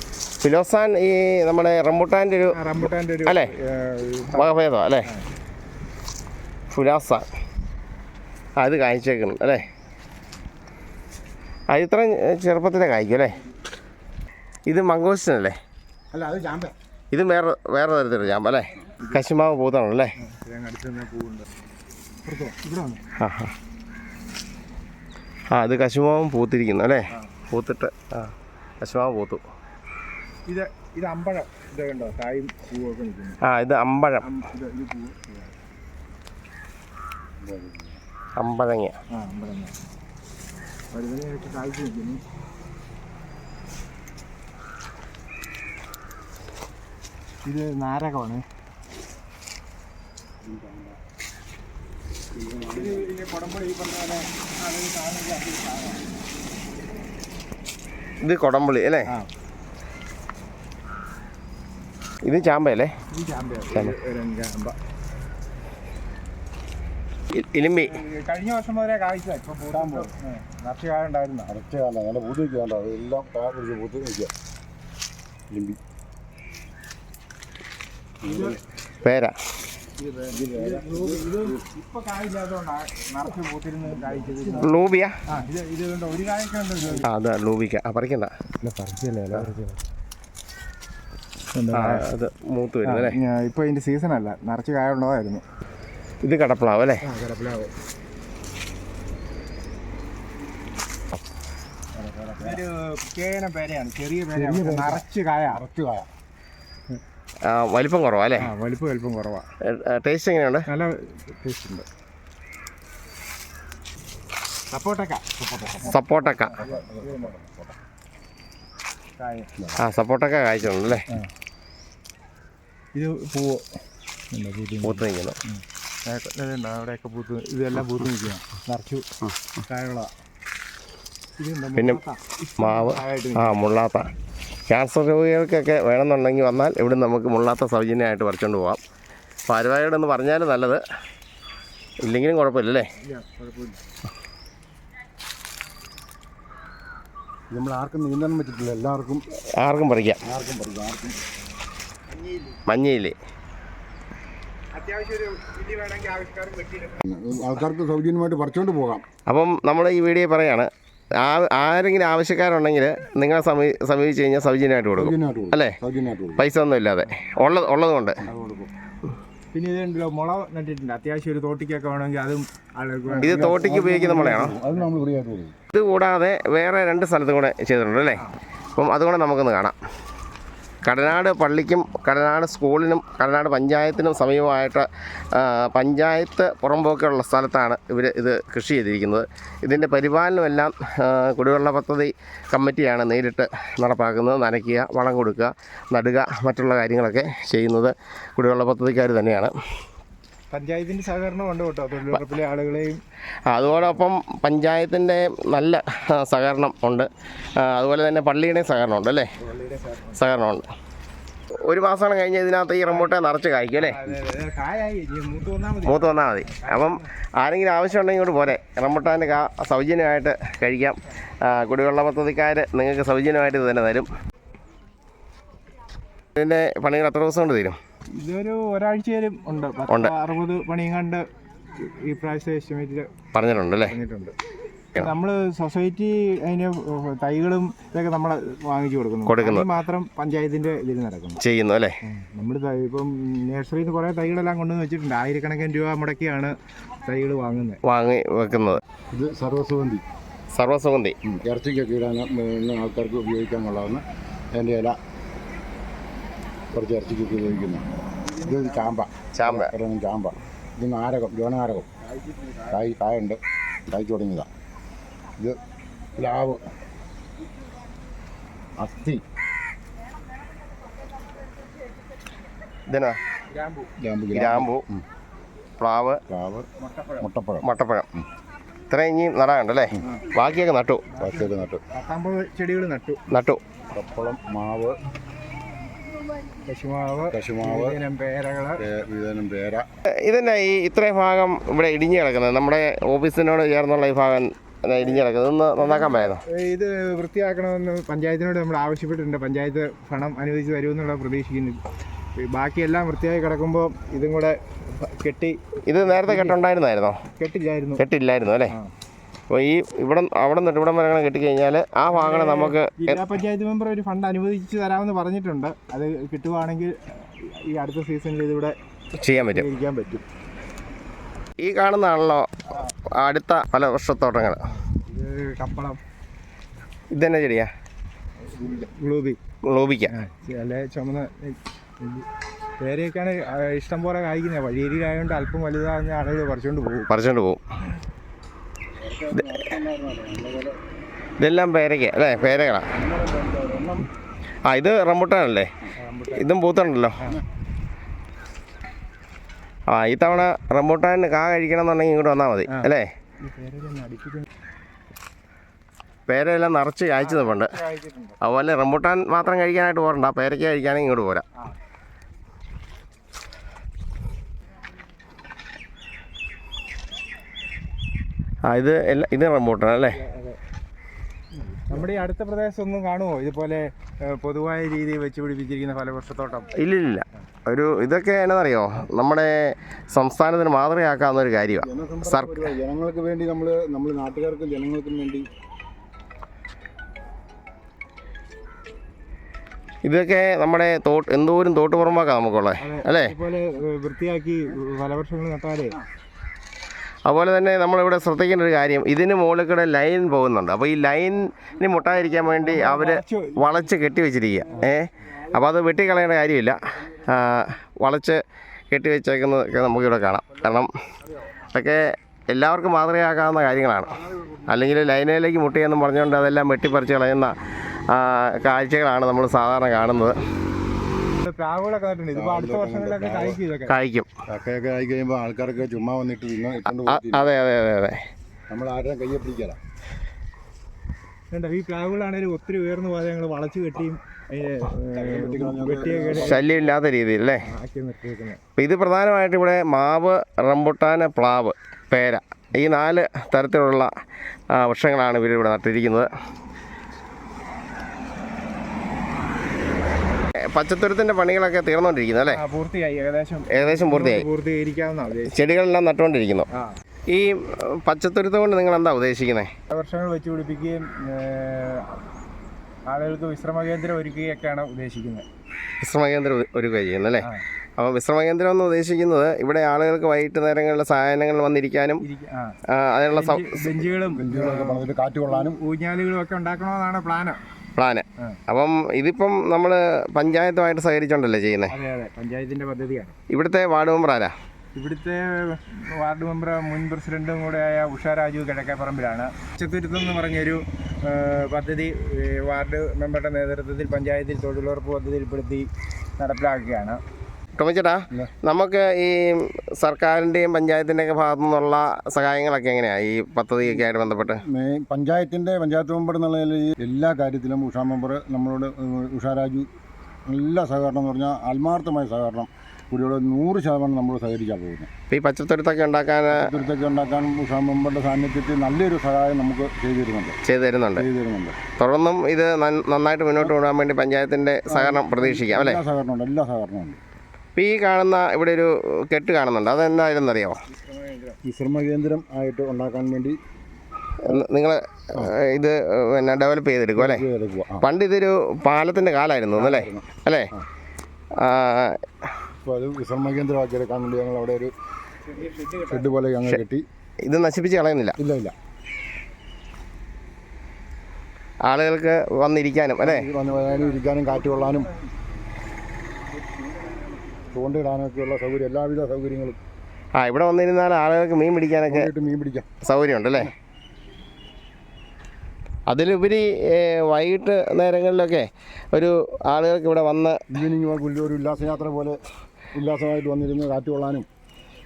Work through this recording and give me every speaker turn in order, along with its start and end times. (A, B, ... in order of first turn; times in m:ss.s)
0:00.4-0:03.5 A
0:02.5-0:05.2 B
0:04.3-0:05.1 A
0:06.7-0:07.3 A
0:08.6-0:09.7 A
0:11.7-0:13.4 A
0:14.7-0:15.6 A
0:16.1-0:16.7 C
0:17.1-0:20.1 A
0:20.2-0:21.5 B
0:22.2-0:23.0 B
0:23.2-0:23.5 A
0:25.5-0:29.4 A
0:30.5-0:33.4 B
0:33.4-0:34.2 A
0:34.2-0:35.5 B
0:37.4-0:38.0 C
0:38.4-0:39.0 A
0:39.1-0:39.7 B
0:40.9-0:42.2 B
0:47.4-0:48.4 B
0:50.4-0:51.0 C
0:52.3-0:53.1 C
0:52.7-0:56.0 B
0:58.2-0:59.1 A
1:02.2-1:02.9 A
1:03.1-1:04.8 B
1:07.3-1:08.0 A
1:07.9-1:11.5 B
1:09.7-1:10.1 C
1:11.5-1:14.3 C
1:15.5-1:15.8 C
1:18.2-1:18.6 C
1:18.2-1:18.6 B
1:19.0-1:19.3 A
1:20.0-1:27.1 B
1:20.3-1:21.6 C
1:23.9-1:24.7 C
1:24.6-1:25.1 A
1:27.0-1:28.3 A
1:28.6-1:29.8 B
1:31.5-1:32.1 B
1:31.7-1:33.2 A
1:32.8-1:35.4 B
1:36.2-1:37.0 A
1:37.0-1:37.7 B
1:41.9-1:45.6 B
1:44.3-1:46.1 C
1:47.4-1:48.5 A
1:48.4-1:49.5 B
1:49.6-1:50.7 A
1:50.7-1:51.8 B
1:54.7-1:57.3 B
1:55.8-1:56.6 A
1:56.5-1:57.7 C
1:59.2-1:59.5 B
1:59.8-2:01.0 A
2:02.9-2:03.6 B
2:04.3-2:09.1 B
2:04.8-2:05.4 A
2:09.7-2:10.1 B
2:11.4-2:13.6 B
2:12.6-2:14.1 A
2:14.7-2:18.8 A
2:19.5-2:20.8 A
2:22.0-2:22.9 A
2:23.0-2:23.8 B
2:27.5-2:29.2 C
2:29.6-2:30.2 A
2:30.2-2:31.2 C
2:32.1-2:32.6 B
2:32.7-2:33.1 A
2:34.7-2:37.0 B
2:37.0-2:39.0 C
2:39.2-2:40.7 A
2:41.2-2:45.8 A
2:44.9-2:46.5 C
2:46.4-2:48.2 A
2:47.0-2:47.4 B
2:48.3-2:48.7 B
2:49.5-2:54.9 B
2:53.1-2:55.6 C
2:53.2-2:54.5 A
2:55.7-2:58.2 A
2:58.8-2:59.8 A
3:00.8-3:19.5 A
3:20.5-3:23.0 B
3:23.5-3:29.3 A
3:29.4-3:30.2 B
3:30.2-3:30.6 A
3:31.6-3:34.1 A
3:32.8-3:33.1 B
3:33.8-3:37.1 B
3:35.8-3:44.1 A
3:46.4-3:47.8 A
3:48.1-3:51.3 B
3:49.9-3:50.1 A
3:51.8-3:53.1 B
3:53.3-3:53.9 A
3:53.9-3:54.3 B
3:54.9-4:01.4 B
3:59.2-3:59.7 A
4:01.4-4:02.0 A
4:02.0-4:07.8 B
4:07.8-4:08.8 A
4:09.1-4:10.0 C
4:10.5-4:11.1 A
4:11.2-4:15.0 C
4:16.7-4:21.9 C
4:18.3-4:19.0 B
4:19.3-4:19.7 A
4:22.0-4:22.8 B
4:22.7-4:24.5 C
4:26.2-4:26.6 C
4:28.8-4:29.2 C
4:32.9-4:33.2 A
4:33.5-4:33.9 B
4:34.0-4:35.0 C
4:34.3-4:34.8 A
4:35.8-4:36.2 A
4:36.3-4:36.6 C
4:36.8-4:37.2 B
4:37.2-4:37.7 C
4:37.6-4:38.1 A
4:38.9-4:41.0 A
4:41.1-4:43.2 B
4:41.2-4:41.8 C
4:43.3-4:43.6 A
4:43.9-4:45.0 C
4:46.6-4:48.8 B
4:47.3-4:48.0 C
4:48.8-4:49.8 C
4:50.1-4:56.4 A
4:55.0-4:55.2 B
4:55.8-5:01.8 B
5:02.4-5:06.6 B
5:05.8-5:07.2 A
5:07.4-5:08.0 B
5:08.0-5:08.8 A
5:09.5-5:13.2 A
5:12.1-5:18.8 B
5:19.2-5:19.7 A
5:19.4-5:20.2 B
5:21.6-5:22.5 A
5:23.0-5:24.7 A
5:24.7-5:26.0 B
5:27.1-5:27.7 A
5:28.5-5:29.4 B
5:29.6-5:30.1 A
5:30.1-5:32.3 B
5:32.8-5:37.1 B
5:37.1-5:37.6 A
5:39.0-5:40.8 C
5:41.4-5:42.9 A
5:42.9-5:44.1 C
5:44.7-5:45.7 A
5:46.0-5:46.5 B
5:46.3-5:47.3 A
5:49.9-5:53.1 A
5:53.4-5:54.4 B
5:56.3-5:57.8 A
5:57.2-5:58.4 B
5:58.4-6:01.4 A
6:08.7-6:10.2 A
6:10.1-6:10.6 B
6:11.9-6:16.7 B
6:16.8-6:22.7 A
6:21.8-6:25.5 C
6:30.0-6:33.3 A
6:32.8-6:36.0 B
6:37.2-6:50.9 A
6:42.6-6:43.9 B
6:51.7-6:57.5 A
6:58.1-7:00.4 A
7:01.4-7:04.0 B
7:02.3-7:03.6 C
7:03.9-7:04.3 A
7:04.5-7:07.5 C
7:06.9-7:08.2 A
7:08.7-7:09.8 C
7:11.5-7:16.6 B
7:15.1-7:16.6 C
7:16.3-7:17.6 A
7:17.6-7:18.6 B
7:18.8-7:24.1 A
7:24.7-7:26.3 A
7:30.7-7:32.6 A
7:32.5-7:35.6 B
7:33.7-7:34.4 A
7:35.5-7:36.7 A
7:37.3-7:39.7 A
7:39.9-7:42.2 B
7:43.1-7:45.4 B
7:46.0-7:52.2 A
7:52.2-7:52.8 B
7:52.9-7:54.0 A
7:53.3-7:57.6 B
7:54.3-7:55.8 C
7:58.0-8:01.9 A
8:01.9-8:03.4 B
8:03.5-8:04.5 A
8:04.9-8:17.2 B
8:17.8-8:24.6 A
8:23.8-8:29.9 C
8:30.5-8:35.1 C
8:35.3-8:36.7 A
8:36.5-8:40.6 C
8:40.6-8:41.2 A
8:41.2-8:41.8 C
8:42.0-8:46.0 A
8:44.9-8:47.2 C
8:47.8-8:50.8 A
8:50.9-8:51.6 B
8:51.6-8:53.6 C
8:54.4-8:57.4 A
8:57.2-8:58.1 C
8:58.0-9:00.7 A
8:59.7-9:00.8 C
9:01.6-9:02.2 A
9:02.8-9:04.9 C
9:05.4-9:06.3 B
9:06.0-9:07.0 C
9:07.4-9:08.4 A
9:08.4-9:08.7 C
9:11.8-9:13.5 A
9:13.2-9:15.1 C
9:17.7-9:19.8 C
9:20.3-9:22.3 A
9:22.1-9:22.9 C
9:23.0-9:23.7 A
9:26.1-9:30.6 A
9:30.7-9:32.4 C
9:32.9-9:34.5 C